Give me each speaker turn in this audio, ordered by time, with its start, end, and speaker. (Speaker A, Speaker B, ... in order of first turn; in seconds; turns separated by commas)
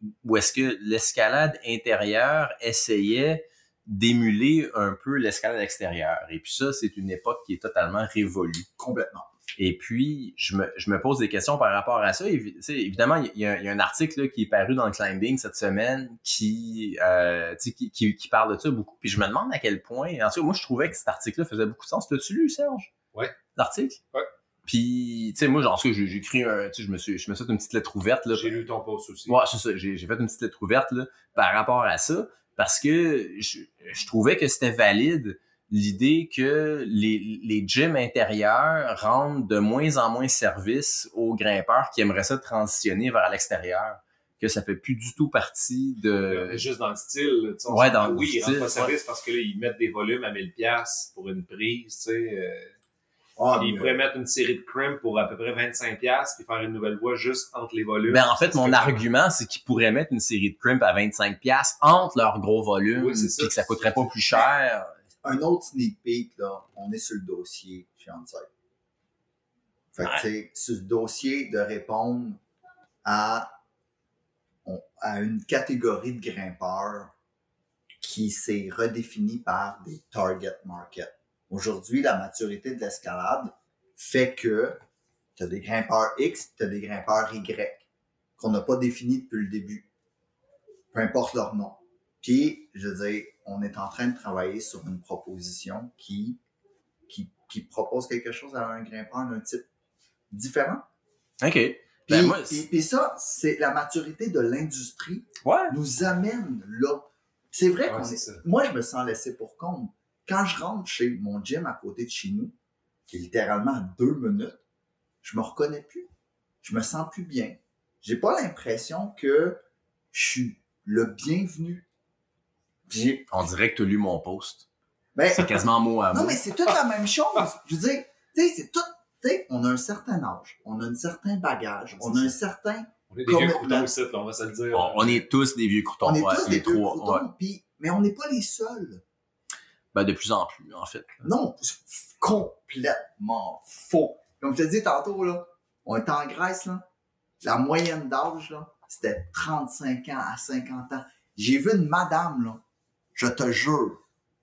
Speaker A: 0.2-8.7, Speaker B: 8.8-9.3, Speaker A: 9.6-22.9, Speaker A: 23.6-24.0, Speaker A: 24.7-28.6, Speaker C: 28.3-29.4, Speaker A: 29.3-46.6, Speaker C: 46.3-52.7, Speaker A: 47.7-48.9, Speaker B: 53.4-54.0, Speaker C: 53.6-59.0, Speaker A: 58.1-64.9, Speaker C: 63.0-64.1, Speaker B: 65.2-68.5, Speaker B: 70.0-72.4, Speaker B: 73.0-73.5, Speaker B: 74.7-77.1, Speaker B: 78.0-84.8, Speaker B: 85.4-87.8, Speaker B: 88.4-89.9, Speaker B: 90.9-96.4, Speaker B: 97.1-99.7, Speaker B: 100.3-100.8, Speaker A: 101.4-102.6, Speaker B: 102.1-112.5, Speaker A: 105.4-105.8, Speaker C: 107.9-108.4, Speaker B: 113.1-114.6, Speaker B: 115.2-116.1, Speaker B: 116.6-119.6, Speaker B: 120.1-121.9, Speaker B: 122.9-123.3, Speaker A: 123.3-124.7, Speaker B: 125.2-133.9, Speaker A: 125.3-126.4, Speaker C: 133.1-135.3, Speaker A: 134.7-137.2, Speaker B: 136.0-139.0, Speaker A: 139.9-141.2, Speaker B: 141.2-146.8, Speaker B: 147.4-152.6, Speaker B: 153.2-154.0